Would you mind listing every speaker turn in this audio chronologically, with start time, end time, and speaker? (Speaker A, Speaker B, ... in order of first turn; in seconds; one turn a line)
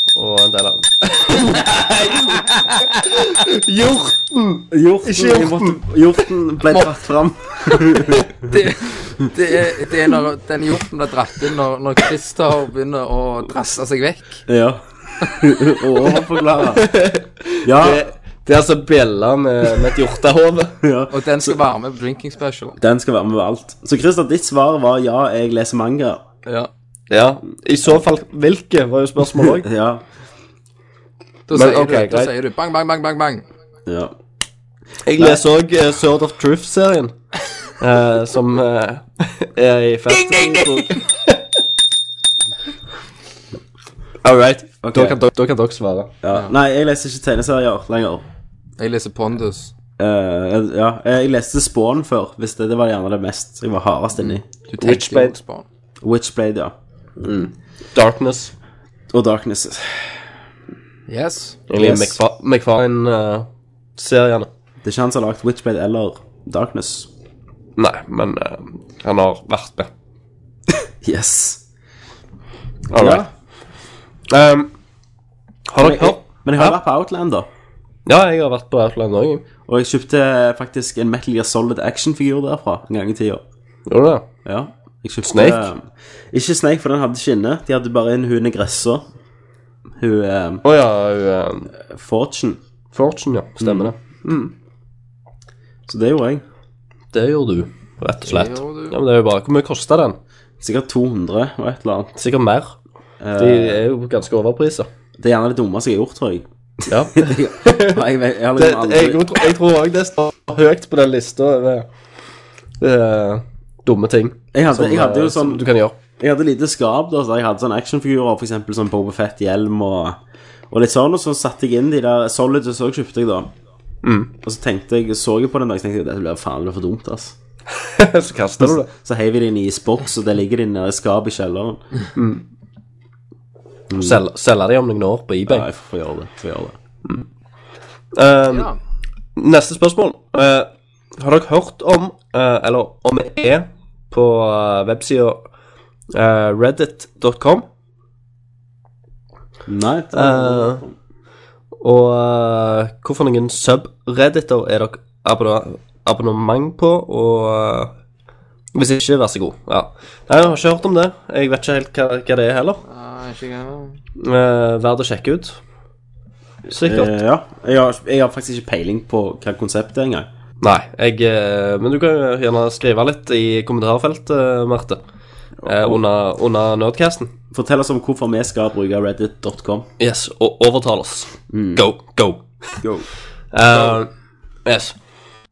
Speaker A: 0.1-5.8
Speaker B: 4.7-8.3
Speaker C: 8.4-14.4
Speaker B: 14.5-16.9
Speaker A: 16.7-20.8
Speaker B: 17.6-18.1
Speaker B: 20.8-21.6
Speaker C: 21.1-22.8
Speaker B: 22.8-26.2
Speaker A: 27.1-29.7
Speaker B: 29.3-30.0
Speaker C: 31.5-33.4
Speaker A: 31.5-32.3
Speaker B: 33.9-34.1
Speaker A: 35.0-37.1
Speaker B: 35.1-35.4
Speaker A: 37.8-41.4
Speaker A: 44.2-46.1
Speaker B: 44.8-45.2
Speaker B: 46.2-48.2
Speaker C: 48.8-49.7
Speaker B: 50.0-54.4
Speaker C: 54.2-55.6
Speaker A: 54.8-55.4
Speaker B: 56.0-57.5
Speaker A: 57.9-58.5
Speaker B: 59.1-60.2
Speaker C: 61.1-61.6
Speaker A: 61.7-64.5
Speaker B: 61.7-62.2
Speaker B: 64.8-67.1
Speaker A: 67.8-69.9
Speaker B: 71.0-71.6
Speaker A: 72.9-73.2
Speaker B: 72.9-73.3
Speaker A: 74.3-74.7
Speaker A: 75.7-76.8
Speaker B: 75.8-77.5
Speaker A: 78.0-79.4
Speaker B: 79.7-83.4
Speaker A: 83.9-84.3
Speaker B: 84.4-89.0
Speaker A: 85.2-85.7
Speaker B: 90.0-90.6
Speaker A: 90.6-91.7
Speaker B: 91.9-92.6
Speaker A: 92.9-94.0
Speaker B: 93.6-94.5
Speaker B: 95.9-96.4
Speaker A: 97.1-100.2
Speaker C: 98.2-99.0
Speaker B: 100.6-102.2
Speaker A: 102.2-102.7
Speaker B: 103.2-103.8
Speaker A: 103.4-104.9
Speaker B: 105.2-109.4
Speaker A: 106.9-108.0
Speaker A: 108.5-111.9
Speaker A: 112.8-115.9
Speaker B: 114.5-115.6
Speaker B: 116.2-120.2
Speaker B: 120.7-123.5
Speaker A: 124.0-124.3
Speaker B: 124.4-127.3
Speaker A: 127.7-128.9
Speaker B: 128.6-131.8
Speaker A: 132.1-132.4
Speaker B: 133.9-134.2
Speaker A: 134.0-135.7
Speaker B: 135.5-136.8
Speaker A: 138.1-138.7
Speaker C: 138.5-138.8
Speaker A: 139.3-145.4
Speaker A: 146.1-147.7
Speaker B: 149.7-150.9
Speaker A: 150.1-150.8
Speaker A: 151.8-157.9
Speaker A: 158.7-162.8
Speaker C: 162.8-163.9
Speaker A: 164.2-165.6
Speaker B: 166.7-170.3
Speaker A: 166.7-167.1
Speaker A: 170.6-175.0
Speaker B: 175.6-176.0
Speaker A: 175.6-177.3
Speaker B: 177.5-179.9
Speaker A: 180.0-182.7
Speaker B: 181.5-181.8
Speaker B: 182.8-183.1
Speaker A: 183.5-184.1
Speaker A: 184.7-184.9